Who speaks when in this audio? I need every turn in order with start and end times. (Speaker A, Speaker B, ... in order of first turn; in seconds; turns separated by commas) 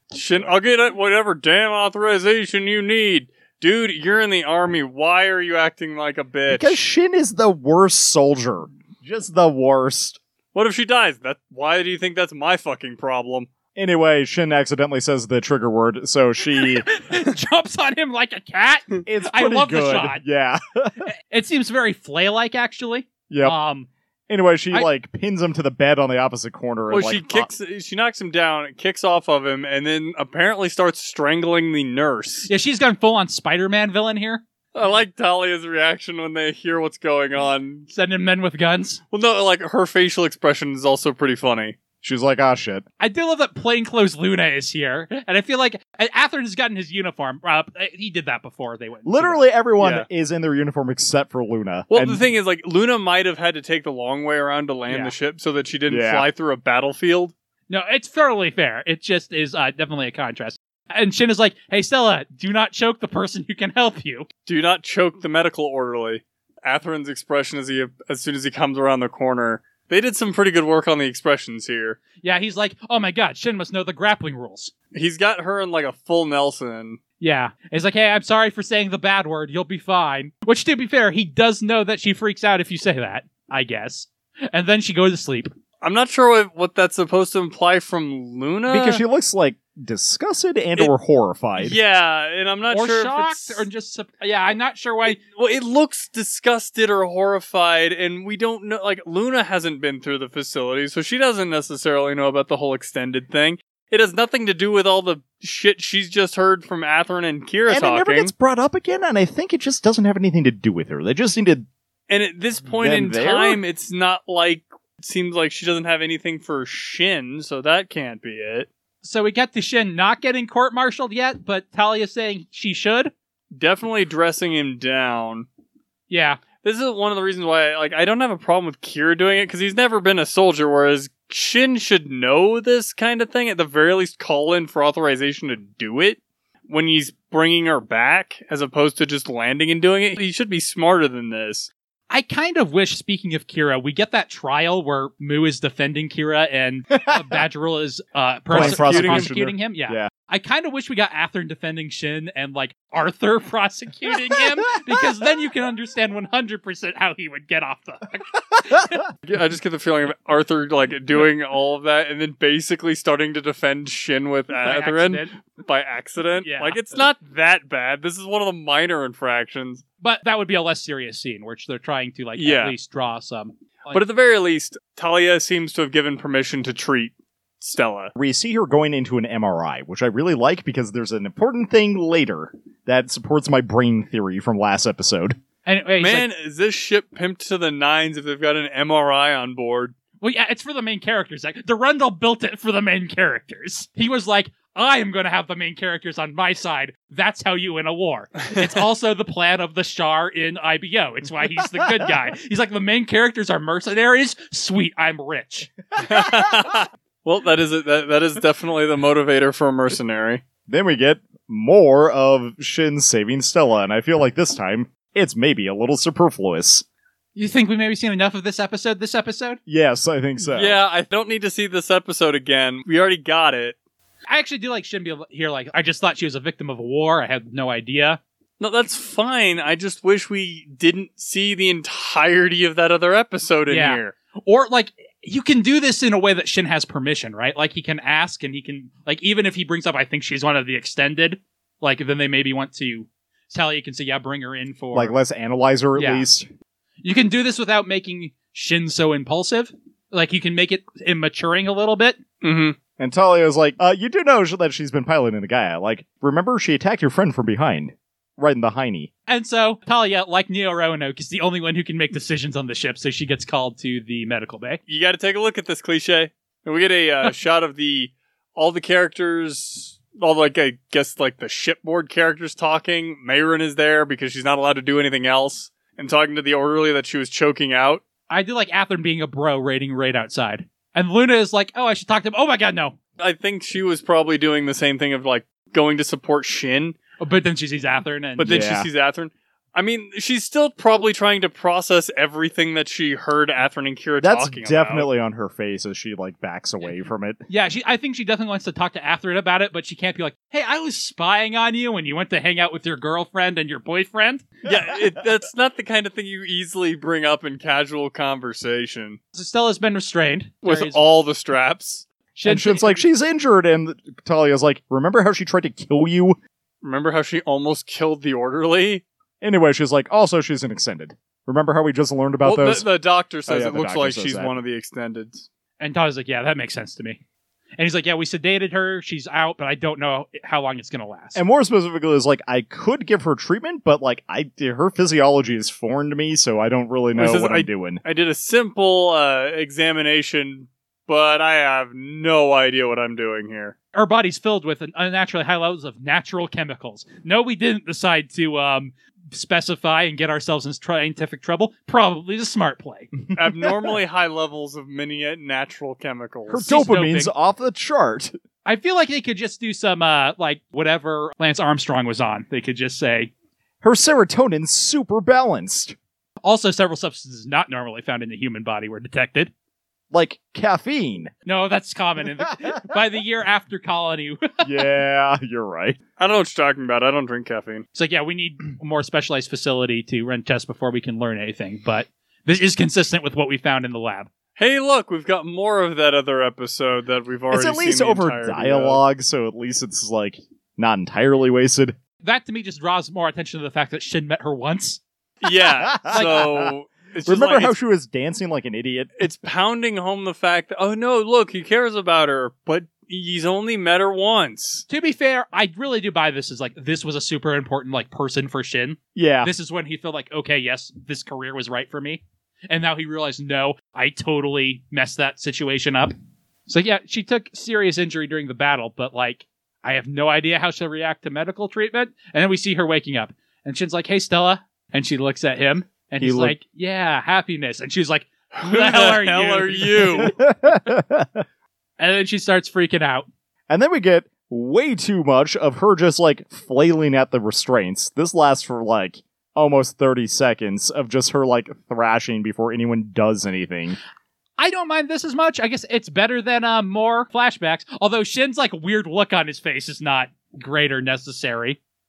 Speaker A: 0.1-6.8, Speaker B: 6.5-10.2, Speaker A: 10.5-13.5, Speaker B: 13.8-16.9, Speaker C: 16.6-20.2, Speaker B: 19.1-21.0, Speaker C: 21.3-23.9, Speaker B: 23.3-23.6, Speaker B: 24.3-27.5, Speaker A: 26.9-32.5, Speaker C: 32.5-34.4, Speaker A: 34.7-37.9, Speaker C: 37.9-39.0, Speaker A: 39.1-41.8, Speaker B: 42.0-42.8, Speaker C: 43.0-49.4, Speaker B: 49.0-52.2, Speaker A: 49.8-50.1, Speaker A: 51.9-57.3, Speaker B: 55.9-56.2, Speaker C: 57.7-64.3, Speaker A: 64.5-72.0, Speaker C: 72.2-74.7, Speaker A: 74.9-77.0, Speaker C: 77.2-85.5, Speaker A: 85.8-89.0, Speaker B: 88.7-91.8, Speaker A: 91.6-93.7, Speaker C: 92.7-95.2, Speaker A: 95.2-108.3, Speaker B: 107.7-111.7, Speaker A: 112.1-118.7, Speaker B: 112.8-113.6, Speaker C: 119.0-123.1, Speaker A: 123.5-125.5, Speaker C: 126.1-126.4, Speaker A: 126.6-141.7, Speaker C: 142.1-159.0, Speaker A: 148.5-149.3, Speaker B: 148.5-150.1, Speaker A: 159.3-169.8, Speaker C: 164.6-165.3, Speaker C: 166.4-166.8, Speaker C: 170.0-174.0, Speaker A: 172.3-172.7, Speaker A: 173.9-178.1, Speaker B: 178.2-185.4, Speaker C: 185.7-186.3, Speaker A: 186.0-189.9, Speaker C: 190.2-205.7, Speaker B: 201.8-202.1, Speaker A: 206.0-210.4, Speaker B: 210.7-216.8, Speaker C: 217.3-219.6, Speaker B: 219.7-220.8, Speaker A: 220.4-223.8, Speaker C: 224.3-228.2, Speaker A: 228.6-234.1, Speaker C: 233.7-245.2, Speaker B: 244.9-246.4, Speaker C: 245.9-246.3, Speaker C: 247.0-252.2, Speaker A: 252.4-252.8, Speaker B: 253.0-259.1, Speaker C: 259.3-264.8, Speaker A: 264.9-278.0, Speaker C: 278.3-283.0, Speaker A: 283.2-287.0, Speaker C: 287.2-288.6, Speaker A: 288.4-295.1, Speaker B: 288.4-288.9, Speaker B: 294.2-297.4, Speaker C: 297.5-304.5, Speaker A: 304.6-309.2, Speaker C: 309.3-311.0, Speaker A: 310.6-312.0, Speaker C: 312.3-313.0, Speaker B: 312.4-316.4, Speaker A: 316.8-319.0, Speaker B: 319.4-322.9, Speaker A: 322.4-325.4, Speaker B: 323.5-324.5, Speaker C: 325.8-327.2, Speaker C: 327.8-331.4, Speaker B: 331.3-338.0, Speaker A: 337.1-343.7, Speaker C: 343.9-353.1, Speaker B: 353.3-353.7, Speaker A: 353.3-356.6, Speaker B: 356.5-358.3, Speaker C: 356.6-357.3, Speaker C: 358.6-363.3, Speaker B: 363.8-365.9, Speaker C: 366.4-369.5, Speaker B: 370.1-371.3, Speaker C: 371.4-374.7, Speaker B: 374.6-376.0, Speaker A: 376.2-377.8, Speaker C: 377.9-384.3, Speaker A: 384.6-389.0, Speaker B: 387.5-391.9, Speaker C: 392.2-395.0, Speaker A: 395.4-397.7, Speaker B: 395.8-396.7, Speaker C: 396.1-396.5, Speaker B: 397.2-399.2, Speaker A: 399.2-404.9, Speaker C: 404.9-416.1, Speaker B: 409.1-409.5, Speaker C: 416.7-430.3, Speaker B: 426.2-426.6, Speaker A: 428.5-430.3, Speaker B: 430.1-431.4, Speaker C: 432.0-433.3, Speaker B: 433.7-444.0, Speaker C: 444.6-451.8